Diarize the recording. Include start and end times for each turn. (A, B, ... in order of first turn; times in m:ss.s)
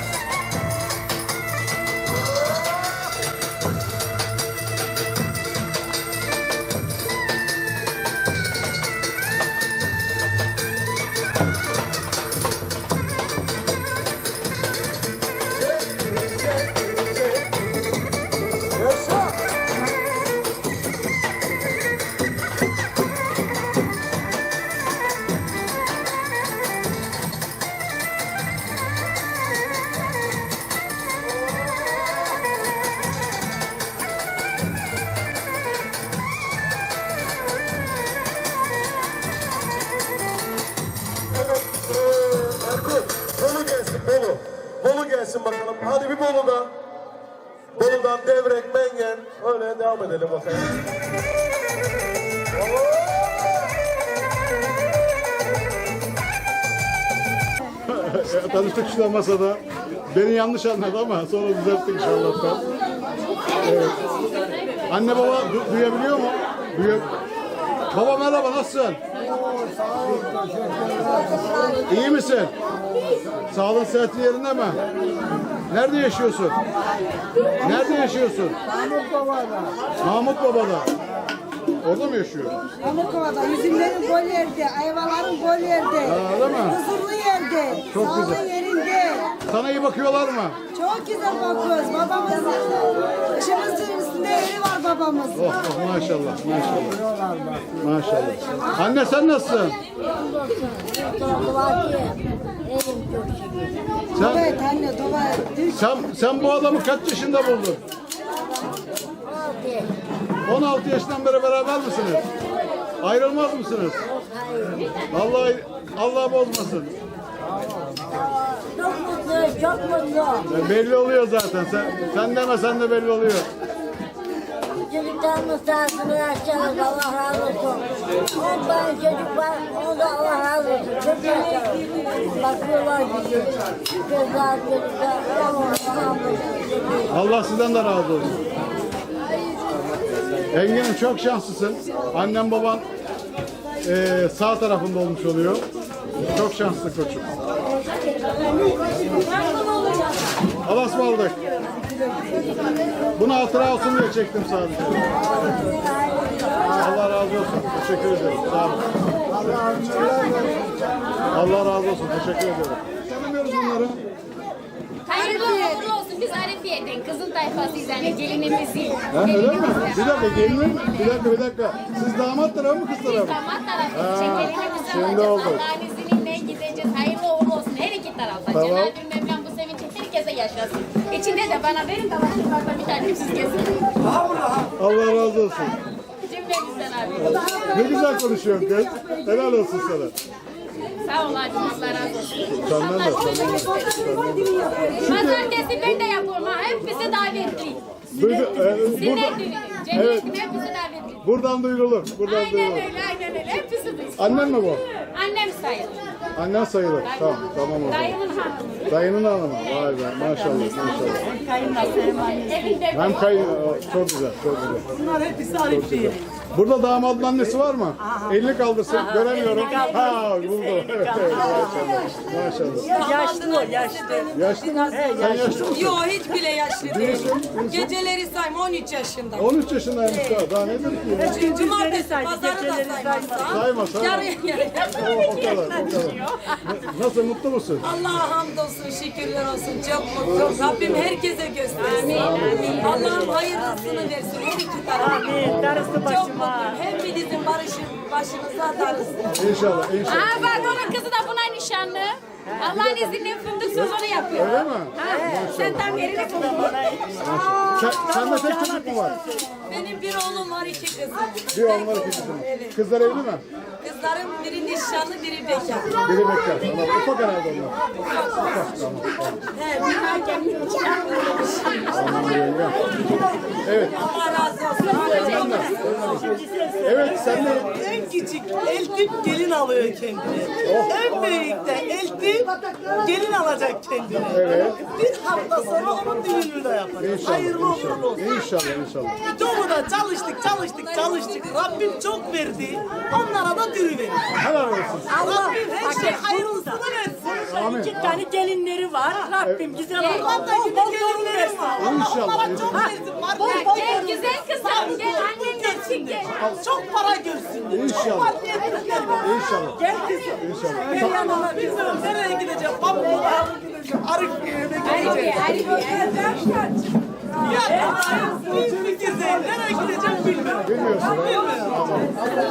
0:15.9-0:17.1 A
0:18.8-0:19.2 A
0:41.3-0:46.7 A
0:47.8-0:50.7 A
0:52.6-0:53.2 A
0:57.9-0:59.6 B
1:00.1-1:02.6 B
1:03.6-1:04.0 B
1:04.9-1:07.1 B
1:07.9-1:09.0 B
1:11.8-1:12.5 B
1:13.5-1:14.8 B
1:15.7-1:16.6 B
1:17.6-1:18.6 B
1:20.0-1:20.9 B
1:21.8-1:22.5 B
1:22.8-1:29.3 C
1:26.0-1:26.8 B
1:27.9-1:28.4 B
1:29.5-1:30.6 B
1:30.7-1:35.5 C
1:35.4-1:37.0 B
1:37.8-1:39.8 B
1:40.2-1:43.8 D
1:44.2-1:44.6 B
1:44.2-1:45.8 C
1:45.7-1:47.8 B
1:49.2-1:49.9 D
1:50.5-1:52.2 B
1:53.0-1:54.0 B
1:54.1-1:54.9 D
1:55.1-1:56.9 B
1:58.2-2:00.5 D
2:00.5-2:03.5 B
2:04.8-2:16.9 D
2:17.1-2:18.4 B
2:20.5-2:22.8 B
2:23.8-2:25.6 B
2:26.2-2:27.3 B
2:30.6-2:31.4 B
2:33.2-2:35.6 B
2:36.7-2:38.9 B
2:41.3-2:44.0 B
2:45.1-2:51.2 E
2:49.1-2:53.4 B
2:53.0-3:04.1 E
2:53.9-2:55.6 B
2:58.5-2:58.9 B
3:04.8-3:05.8 B
3:06.2-3:07.7 E
3:07.2-3:10.2 B
3:07.6-3:09.6 C
3:11.0-3:14.0 E
3:12.4-3:16.0 B
3:13.6-3:15.1 C
3:15.0-3:21.2 E
3:18.1-3:20.3 B
3:21.2-3:22.9 B
3:22.2-3:26.1 E
3:24.2-3:24.8 B
3:26.4-3:28.2 B
3:27.9-3:28.8 E
3:28.9-3:31.9 B
3:32.3-3:33.3 E
3:32.9-3:34.9 B
3:35.6-3:43.0 B
3:38.9-3:39.8 F
3:39.6-3:41.8 G
3:42.8-3:49.5 F
3:42.9-3:44.2 G
3:44.3-3:46.1 B
3:45.0-3:45.5 G
3:46.8-3:47.9 B
3:49.4-3:51.4 B
3:51.2-3:55.0 F
3:51.2-3:53.4 G
3:53.4-3:54.3 B
3:54.6-3:56.4 E
3:54.9-3:57.8 B
3:57.8-4:09.3 F
4:01.8-4:03.0 E
4:02.1-4:03.0 B
4:05.4-4:06.1 B
4:05.4-4:06.6 G
4:09.3-4:10.8 B
4:10.1-4:17.0 E
4:13.8-4:16.2 B
4:16.3-4:16.7 G
4:17.2-4:19.2 B
4:18.1-4:19.0 G
4:19.7-4:22.8 F
4:21.5-4:23.4 B
4:23.8-4:26.0 F
4:26.0-4:29.4 B
4:31.9-4:32.9 B
4:33.6-4:34.1 B
4:34.0-4:35.8 F
4:35.0-4:36.2 B
4:36.5-4:48.4 G
4:36.8-4:37.7 B
4:40.6-4:40.9 B
4:44.3-4:44.8 B
4:47.0-4:49.2 B
4:49.2-4:54.4 G
4:54.4-4:55.2 B
4:55.1-5:16.6 G
4:57.5-4:58.3 B
4:59.4-4:59.8 B
4:59.9-5:00.3 E
5:01.8-5:02.9 B
5:03.4-5:06.3 E
5:07.7-5:08.4 B
5:09.2-5:11.3 B
5:14.9-5:16.5 E
5:17.4-5:21.7 G
5:20.6-5:22.2 B